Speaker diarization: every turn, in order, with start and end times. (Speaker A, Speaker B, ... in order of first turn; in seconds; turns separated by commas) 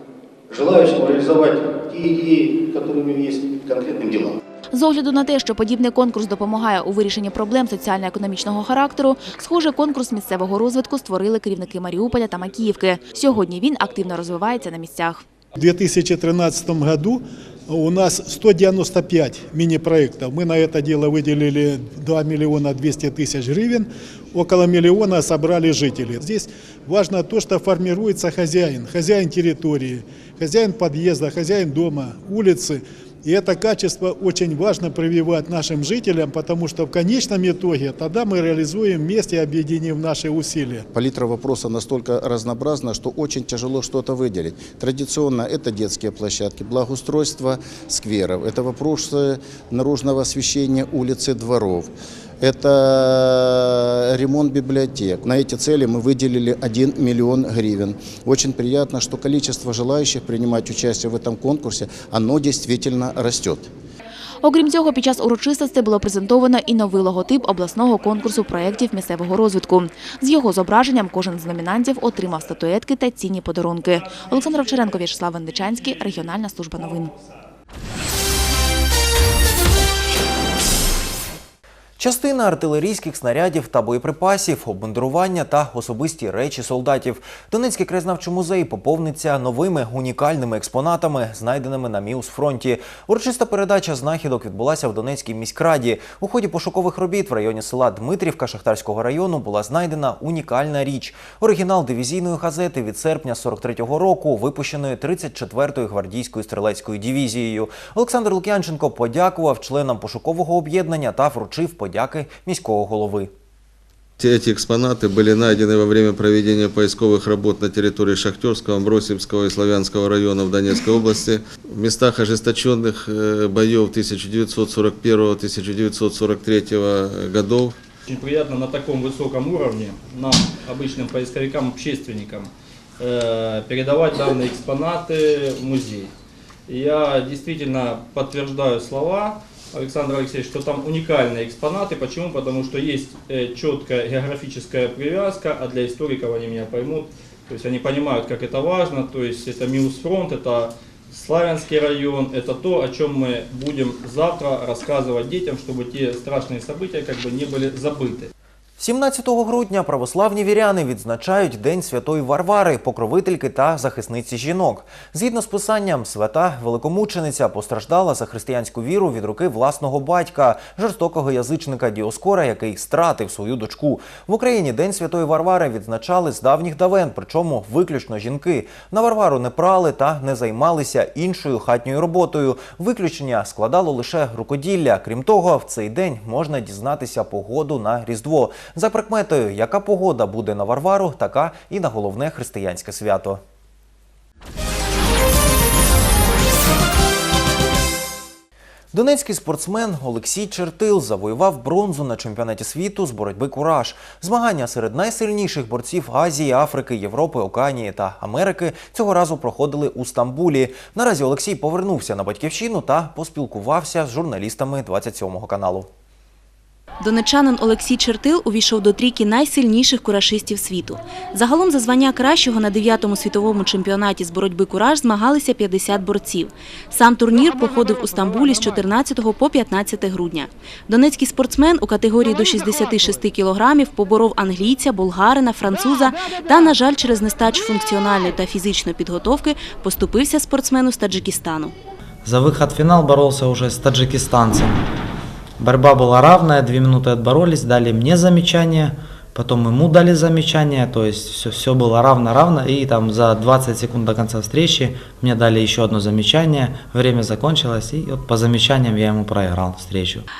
Speaker A: 0.5-4.4, Speaker B: 4.7-15.2, Speaker C: 15.6-40.8, Speaker D: 40.9-63.7, Speaker B: 64.4-77.1, Speaker E: 82.0-113.3, Speaker F: 114.2-127.8, Speaker G: 128.1-136.1, Speaker G: 136.7-158.3, Speaker E: 158.8-193.4, Speaker E: 198.9-215.9, Speaker H: 217.0-241.7, Speaker I: 242.2-244.7, Speaker I: 245.6-260.1